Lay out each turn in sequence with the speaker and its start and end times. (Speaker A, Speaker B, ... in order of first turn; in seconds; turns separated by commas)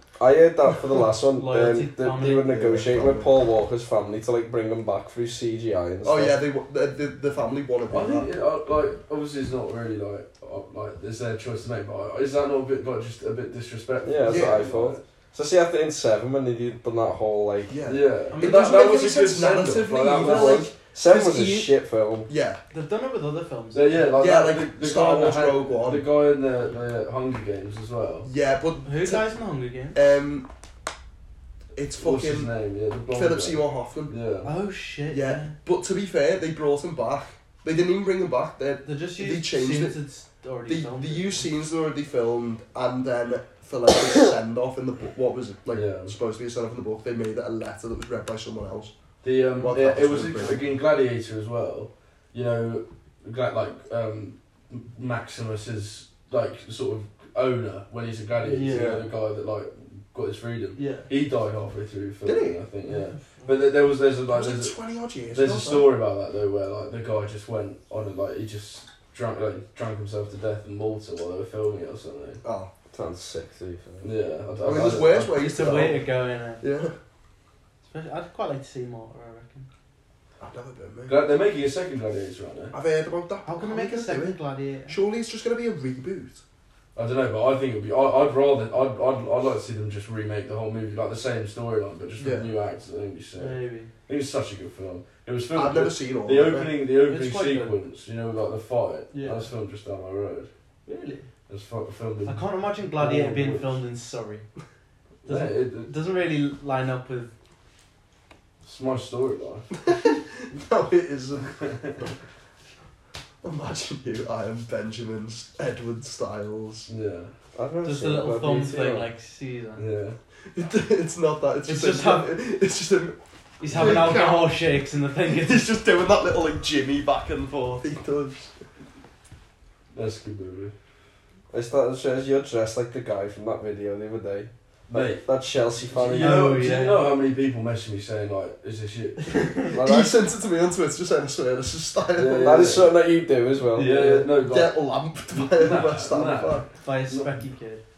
Speaker A: 0.2-6.4, Speaker B: 1.3-2.6, Speaker C: 2.4-3.3, Speaker C: 6.0-8.3, Speaker D: 7.9-15.0, Speaker A: 14.0-17.8, Speaker C: 14.3-14.7, Speaker C: 17.7-20.7, Speaker D: 17.9-20.7, Speaker B: 18.3-18.8, Speaker A: 20.2-22.3, Speaker B: 21.0-21.7, Speaker C: 22.3-22.6, Speaker B: 22.7-24.0, Speaker D: 23.7-28.3, Speaker C: 24.2-26.0, Speaker C: 28.2-29.3, Speaker B: 28.8-30.0, Speaker C: 29.9-30.5, Speaker C: 31.7-32.5, Speaker D: 32.0-34.5, Speaker C: 33.1-34.1, Speaker B: 34.4-35.5, Speaker C: 35.1-40.0, Speaker B: 38.8-41.5, Speaker C: 40.7-48.9, Speaker D: 45.7-46.1, Speaker D: 49.2-64.8, Speaker C: 49.6-50.7, Speaker B: 58.4-59.0, Speaker A: 58.7-59.0, Speaker B: 60.8-61.1, Speaker C: 62.2-62.6, Speaker B: 62.9-63.6, Speaker C: 64.3-65.9, Speaker D: 65.3-72.4, Speaker C: 72.4-72.7, Speaker A: 72.9-74.1, Speaker D: 74.0-75.3, Speaker C: 74.6-76.1, Speaker B: 75.2-76.6, Speaker C: 76.6-76.9, Speaker B: 77.8-79.7, Speaker C: 80.4-81.2, Speaker D: 81.1-82.7, Speaker C: 82.7-86.4, Speaker B: 83.5-85.0, Speaker D: 86.9-100.5, Speaker C: 92.2-92.5, Speaker B: 93.4-93.9, Speaker C: 95.5-96.7, Speaker B: 97.1-97.8, Speaker B: 99.1-99.5, Speaker B: 100.8-101.3, Speaker D: 101.5-102.4, Speaker B: 102.2-104.4, Speaker D: 103.0-103.7, Speaker D: 105.2-105.9, Speaker B: 105.2-107.3, Speaker D: 108.6-109.7, Speaker C: 109.8-112.0, Speaker D: 111.4-112.1, Speaker C: 113.4-116.9, Speaker D: 116.9-117.3, Speaker A: 117.5-119.1, Speaker B: 117.8-119.8, Speaker D: 119.8-120.2, Speaker C: 120.5-124.7, Speaker B: 121.7-122.3, Speaker B: 123.6-125.7, Speaker C: 125.2-128.5, Speaker D: 129.9-130.7, Speaker A: 131.5-136.6, Speaker D: 134.9-135.2, Speaker D: 135.9-139.4, Speaker B: 136.1-137.1, Speaker B: 139.2-139.7, Speaker C: 139.7-142.8, Speaker A: 139.7-140.1, Speaker D: 142.1-142.9, Speaker A: 142.4-144.2, Speaker D: 143.7-147.3, Speaker C: 144.4-146.7, Speaker B: 146.8-147.8